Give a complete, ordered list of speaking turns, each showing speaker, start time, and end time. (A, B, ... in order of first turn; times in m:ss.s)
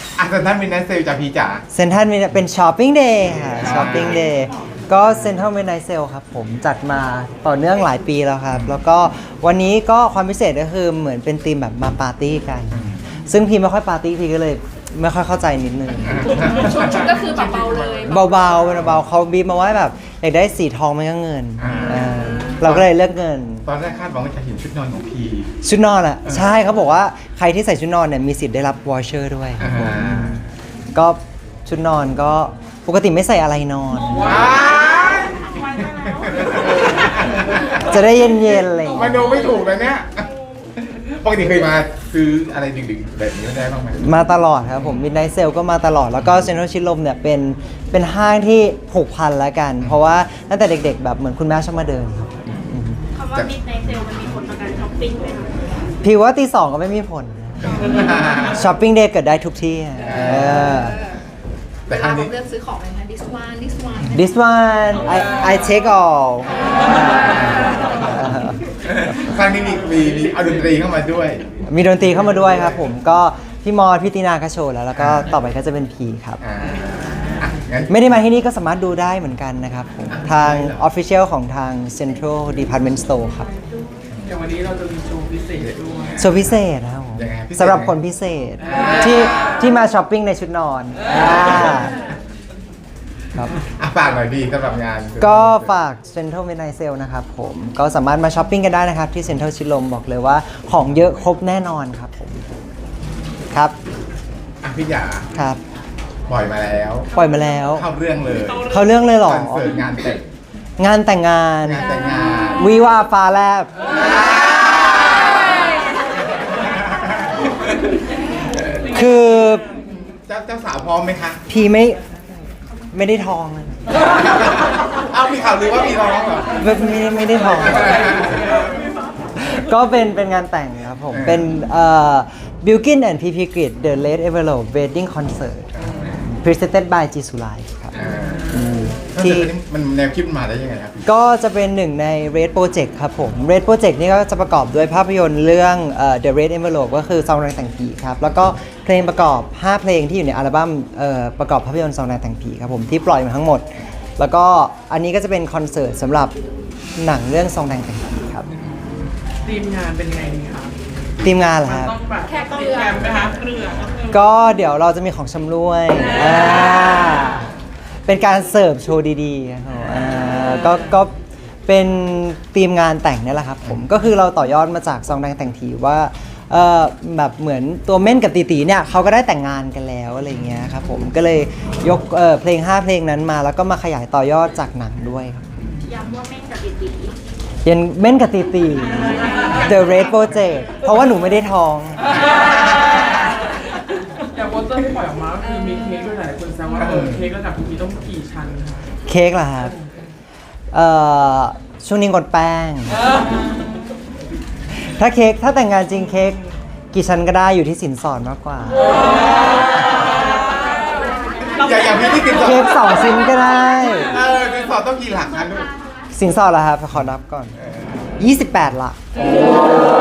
0:00.2-0:01.6 A
0:01.7-0:16.9 B
0:03.6-0:04.2 A
0:16.1-0:17.3 A
0:16.8-0:18.1 C
0:18.1-0:23.7 B
0:21.6-0:22.1 A
0:22.6-0:22.9 A
0:23.7-0:25.5 A
0:25.6-0:30.4 B
0:29.6-0:30.4 A
0:30.9-0:34.3 B
0:34.1-0:34.5 D
0:34.2-0:37.9 A
0:37.8-0:39.3 B
0:38.9-0:44.0 A
0:44.0-0:53.0 B
0:53.2-0:55.5 E
0:56.0-0:57.8 B
0:57.7-0:58.6 A
0:58.5-1:01.0 B
1:00.0-1:00.7 A
1:01.9-1:02.4 A
1:02.0-1:04.1 C
1:04.1-1:08.6 B
1:07.4-1:07.7 A
1:08.8-1:11.4 A
1:11.7-1:16.4 B
1:15.0-1:15.3 A
1:16.4-1:16.8 A
1:17.4-1:18.0 A
1:17.9-1:23.5 B
1:20.1-1:20.8 A
1:24.3-1:26.2 D
1:26.2-1:32.0 B
1:26.2-1:26.6 A
1:27.2-1:28.0 A
1:33.8-1:35.8 A
1:35.2-1:42.5 B
1:44.6-1:45.3 A
1:45.3-1:45.6 B
1:46.3-1:47.1 A
1:47.2-1:47.9 B
1:47.8-1:50.2 A
1:48.7-1:49.7 B
1:50.8-1:51.9 B
1:51.7-1:52.7 A
1:52.6-1:53.7 B
1:54.0-1:55.5 A
1:56.7-1:57.1 A
1:58.7-1:59.7 B
2:00.2-2:01.4 A
2:01.5-2:02.0 B
2:02.9-2:03.8 B
2:04.4-2:06.6 A
2:06.6-2:08.4 B
2:09.4-2:15.7 B
2:11.1-2:11.4 A
2:15.8-2:16.1 A
2:16.4-2:19.5 B
2:18.0-2:18.5 A
2:19.1-2:21.1 A
2:21.0-2:36.4 B
2:37.0-2:38.5 B
2:39.4-2:40.8 D
2:41.2-2:42.0 B
2:41.6-2:44.1 D
2:44.1-2:47.5 B
2:48.1-2:51.1 B
2:51.7-3:05.6 B
3:05.9-3:07.2 E
3:07.6-3:12.2 B
3:14.3-3:18.8 D
3:16.8-3:17.2 A
3:19.1-3:19.7 B
3:20.7-3:23.0 B
3:24.7-3:26.4 B
3:26.9-3:28.9 B
3:31.5-3:32.8 A
3:32.4-3:34.1 B
3:34.1-3:35.7 A
3:36.1-3:37.5 B
3:38.2-3:39.0 B